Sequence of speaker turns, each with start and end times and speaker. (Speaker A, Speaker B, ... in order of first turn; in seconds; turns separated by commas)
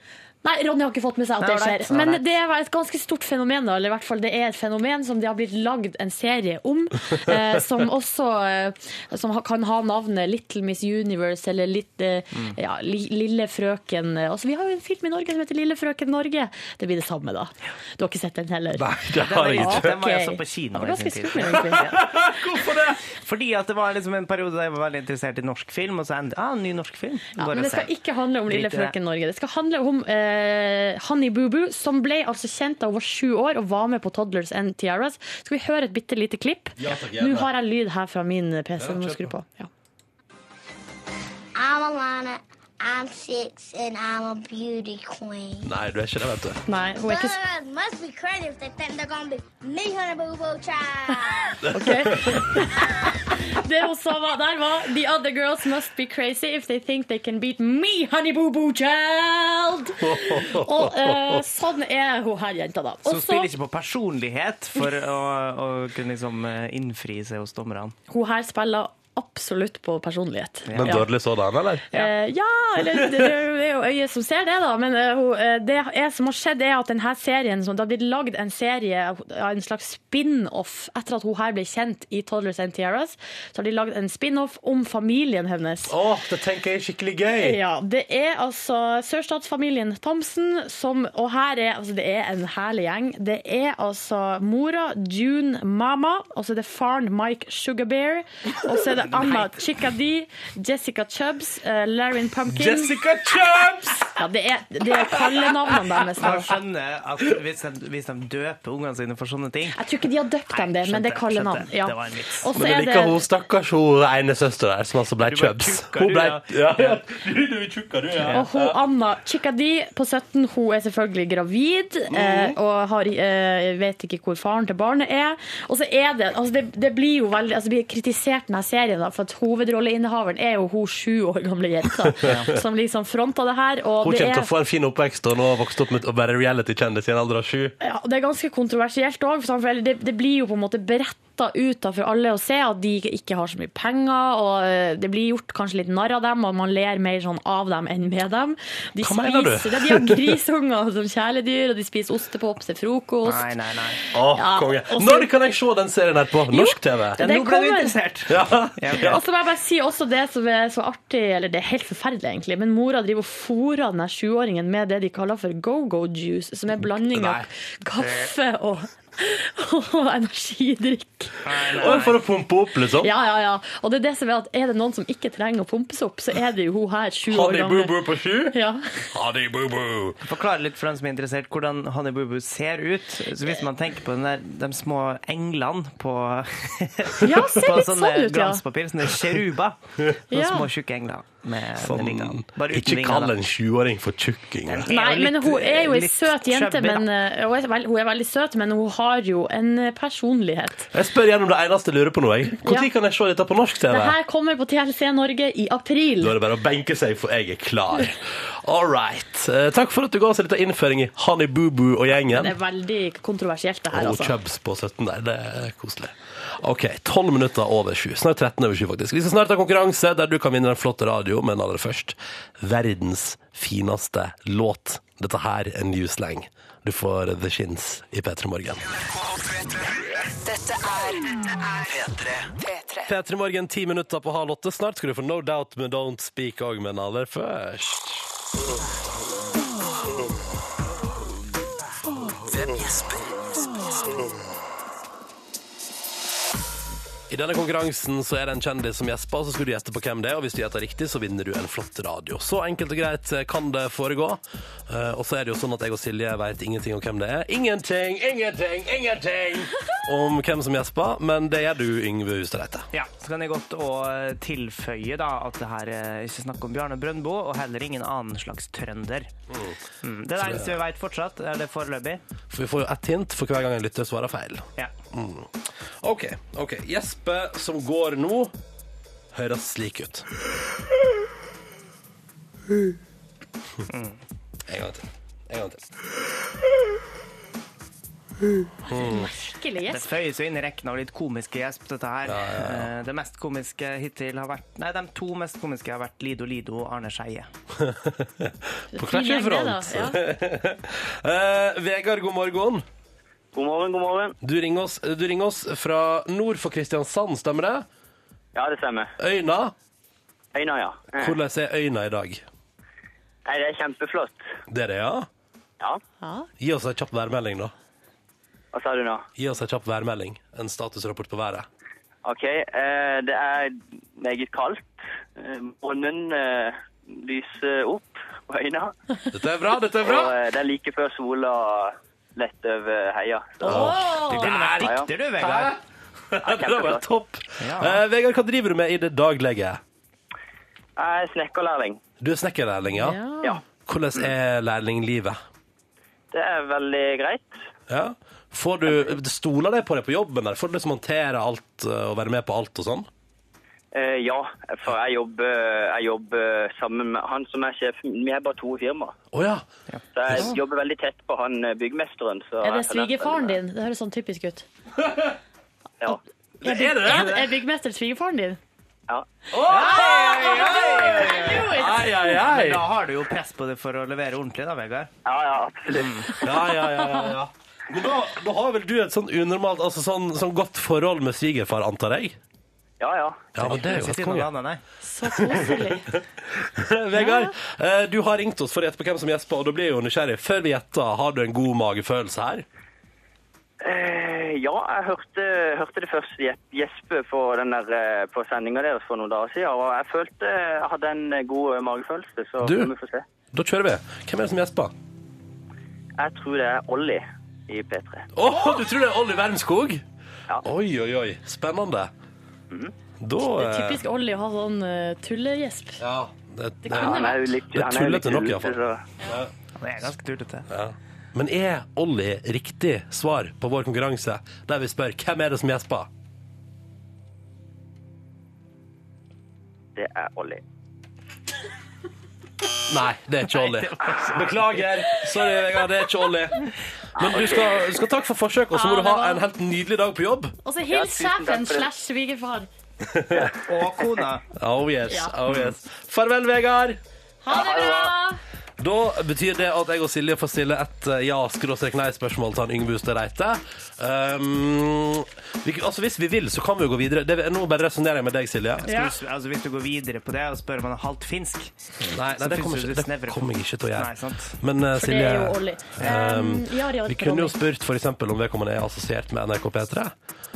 Speaker A: 0.4-18.9, Speaker B: 1.4-2.3, Speaker C: 18.8-19.9, Speaker B: 19.2-22.1, Speaker A: 19.5-21.9, Speaker C: 21.5-23.0, Speaker B: 23.1-27.9, Speaker A: 27.4-39.7, Speaker B: 28.5-28.9, Speaker C: 36.8-37.5, Speaker C: 38.8-39.3, Speaker D: 41.6-45.7, Speaker C: 45.6-46.6, Speaker A: 46.7-47.4, Speaker D: 47.0-51.6, Speaker C: 51.6-52.4, Speaker A: 51.7-63.5, Speaker C: 60.0-61.4, Speaker B: 63.0-68.0, Speaker A: 68.1-71.1, Speaker B: 70.7-71.0, Speaker C: 70.8-71.9, Speaker A: 71.9-85.9, Speaker C: 72.9-73.3, Speaker C: 85.9-87.6, Speaker A: 87.4-103.0, Speaker B: 98.9-99.6, Speaker C: 102.5-104.1, Speaker A: 104.2-106.5, Speaker C: 105.1-105.5, Speaker B: 106.2-109.8, Speaker A: 109.8-113.2, Speaker B: 110.5-112.4, Speaker C: 112.5-118.8, Speaker B: 115.2-117.0, Speaker A: 118.3-134.5, Speaker C: 122.1-122.6, Speaker B: 132.2-132.6, Speaker C: 134.0-137.8, Speaker A: 137.8-153.5, Speaker C: 149.0-150.4, Speaker B: 153.2-154.0, Speaker A: 154.1-155.3, Speaker C: 154.1-157.2, Speaker A: 156.5-157.9, Speaker B: 157.2-159.2, Speaker C: 158.3-159.2, Speaker A: 158.9-171.4, Speaker C: 167.1-167.5, Speaker B: 171.4-172.2, Speaker C: 171.7-173.1, Speaker A: 173.0-179.1, Speaker C: 177.3-178.6, Speaker C: 179.1-180.2, Speaker B: 180.2-189.8, Speaker A: 187.2-188.6, Speaker B: 190.3-193.3, Speaker A: 190.3-190.7, Speaker C: 191.8-194.9, Speaker B: 194.7-197.1, Speaker A: 194.9-200.9, Speaker C: 200.9-204.2, Speaker A: 203.9-206.3, Speaker C: 206.2-212.5, Speaker A: 212.3-214.3, Speaker C: 213.9-228.8, Speaker C: 233.0-238.3, Speaker C: 242.5-243.3, Speaker C: 247.3-262.9, Speaker B: 262.9-269.3, Speaker C: 269.5-269.8, Speaker B: 270.0-272.2, Speaker C: 270.4-270.8, Speaker C: 272.5-275.5, Speaker C: 276.0-278.5, Speaker C: 279.3-280.3, Speaker B: 283.9-284.2, Speaker C: 284.7-285.9, Speaker C: 288.9-289.3, Speaker A: 288.9-290.1, Speaker B: 289.9-297.5, Speaker C: 292.3-292.9, Speaker C: 297.8-302.8, Speaker A: 298.9-300.2, Speaker E: 303.5-304.4, Speaker C: 304.4-307.9, Speaker E: 308.5-309.1, Speaker C: 309.2-309.7, Speaker E: 310.5-311.3, Speaker C: 311.2-312.4, Speaker E: 313.5-314.4, Speaker C: 314.7-315.3, Speaker A: 316.2-316.5, Speaker C: 316.6-317.7, Speaker E: 318.7-319.3, Speaker C: 319.4-321.7, Speaker E: 322.2-328.9, Speaker C: 329.3-330.4, Speaker E: 330.0-333.9, Speaker A: 333.6-334.5, Speaker C: 333.7-335.8, Speaker B: 334.3-335.8, Speaker E: 334.8-335.1, Speaker C: 336.3-339.8, Speaker E: 336.4-337.0, Speaker B: 337.6-338.0, Speaker E: 341.0-342.0, Speaker C: 342.2-343.2, Speaker A: 342.9-343.6, Speaker C: 343.8-345.4, Speaker E: 346.3-347.5, Speaker C: 347.9-353.1, Speaker E: 353.9-359.1, Speaker C: 359.3-359.7, Speaker B: 359.9-360.6, Speaker E: 360.2-363.6, Speaker A: 362.6-364.6, Speaker C: 365.0-365.4, Speaker C: 366.6-367.5, Speaker A: 366.6-368.6, Speaker C: 369.5-372.8, Speaker B: 369.7-375.1, Speaker A: 369.7-372.1, Speaker E: 375.2-376.5, Speaker B: 376.0-376.3, Speaker C: 376.3-382.4, Speaker A: 377.0-377.3, Speaker E: 383.0-383.5, Speaker C: 383.5-384.5, Speaker B: 383.6-384.8, Speaker A: 385.0-386.1, Speaker C: 385.3-392.6, Speaker A: 387.2-387.5, Speaker E: 393.8-403.2, Speaker C: 402.6-402.9, Speaker C: 403.5-404.9, Speaker E: 406.2-408.3, Speaker C: 408.3-410.0, Speaker C: 410.6-412.1, Speaker C: 413.2-414.0, Speaker A: 413.6-416.0, Speaker C: 416.0-419.5, Speaker A: 416.8-417.5, Speaker E: 416.9-419.0, Speaker B: 419.8-420.7, Speaker C: 420.7-426.1, Speaker E: 430.0-430.6, Speaker C: 432.9-440.5, Speaker B: 433.5-434.8, Speaker E: 437.2-437.8, Speaker A: 438.7-439.4, Speaker A: 440.6-442.7, Speaker E: 440.9-441.9, Speaker C: 443.0-443.5, Speaker B: 443.5-444.4, Speaker C: 444.6-447.0, Speaker A: 445.1-445.3, Speaker A: 447.4-448.4, Speaker E: 447.5-448.1, Speaker C: 448.8-458.9, Speaker B: 458.8-461.7, Speaker A: 458.9-459.1, Speaker C: 462.0-470.1, Speaker B: 462.3-464.6, Speaker A: 465.0-467.6